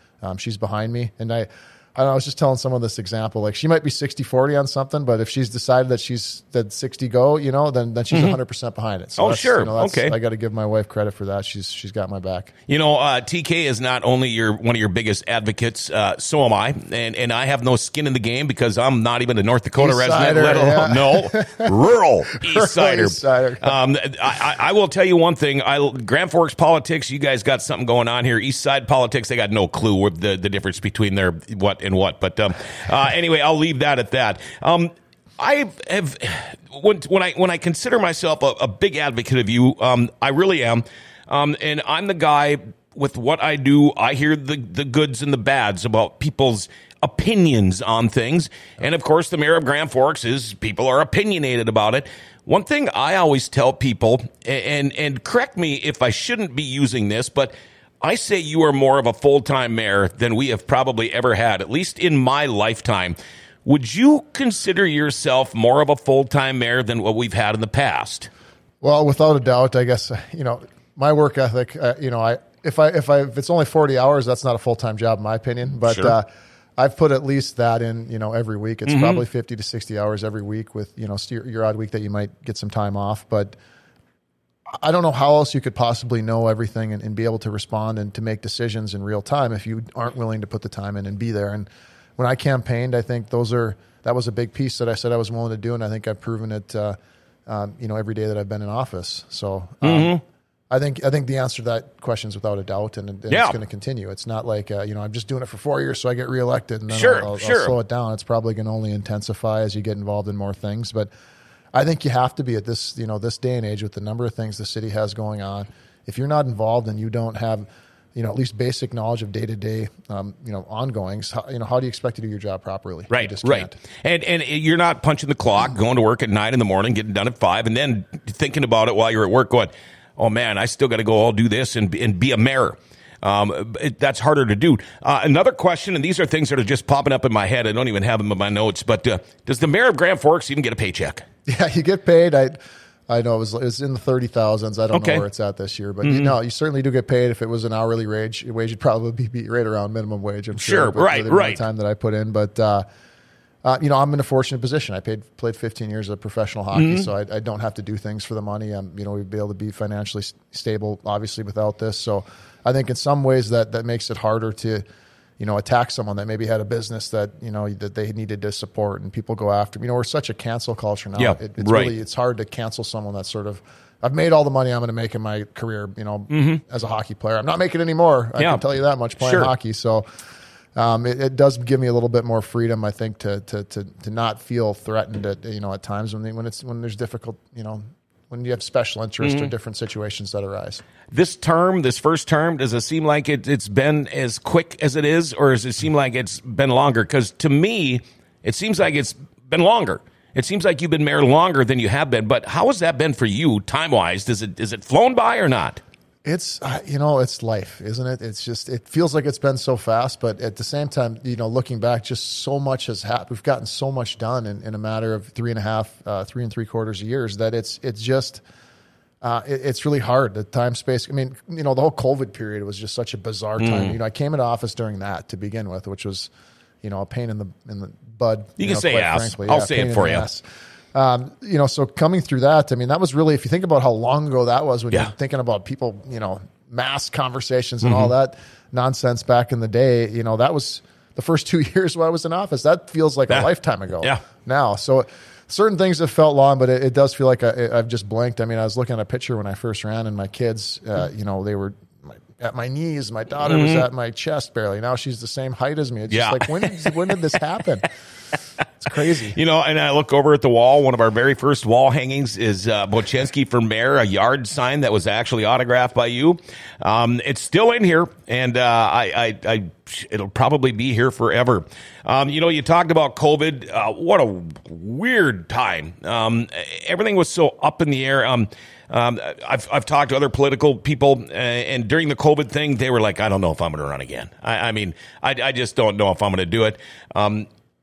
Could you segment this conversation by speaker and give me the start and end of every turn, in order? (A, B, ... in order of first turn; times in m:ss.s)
0:00.2-0:12.5 A
0:08.1-0:08.4 B
0:09.2-0:10.2 B
0:12.7-1:08.3 B
0:19.8-0:21.7 A
0:22.3-0:23.8 A
1:08.8-1:23.6 A
1:15.9-1:16.1 B
1:18.9-1:19.2 B
1:24.8-1:40.2 A
1:39.8-1:40.2 B
1:40.7-1:51.1 A
1:43.3-1:43.6 B
1:46.9-1:47.7 B
1:51.7-2:03.8 A
2:03.1-2:21.2 B
2:21.5-2:22.6 A
2:23.1-2:32.8 A
2:24.9-2:25.2 B
2:26.0-2:26.3 B
2:30.6-2:31.6 B
2:33.6-2:44.8 A
2:36.7-2:37.1 B
2:45.4-3:00.0 A
2:51.2-2:51.9 B
2:56.3-2:56.6 B
2:59.2-2:59.5 B
3:00.8-3:10.8 A
3:09.2-3:09.5 B
3:11.1-3:25.8 B
3:26.2-3:38.4 A
3:39.2-3:46.3 A
3:43.6-3:44.0 B
3:46.8-4:17.9 A
3:48.6-3:50.2 B
3:57.8-3:58.1 B
4:13.4-4:13.9 B
4:16.1-4:17.1 B
4:18.8-4:19.4 A
4:19.0-4:47.5 B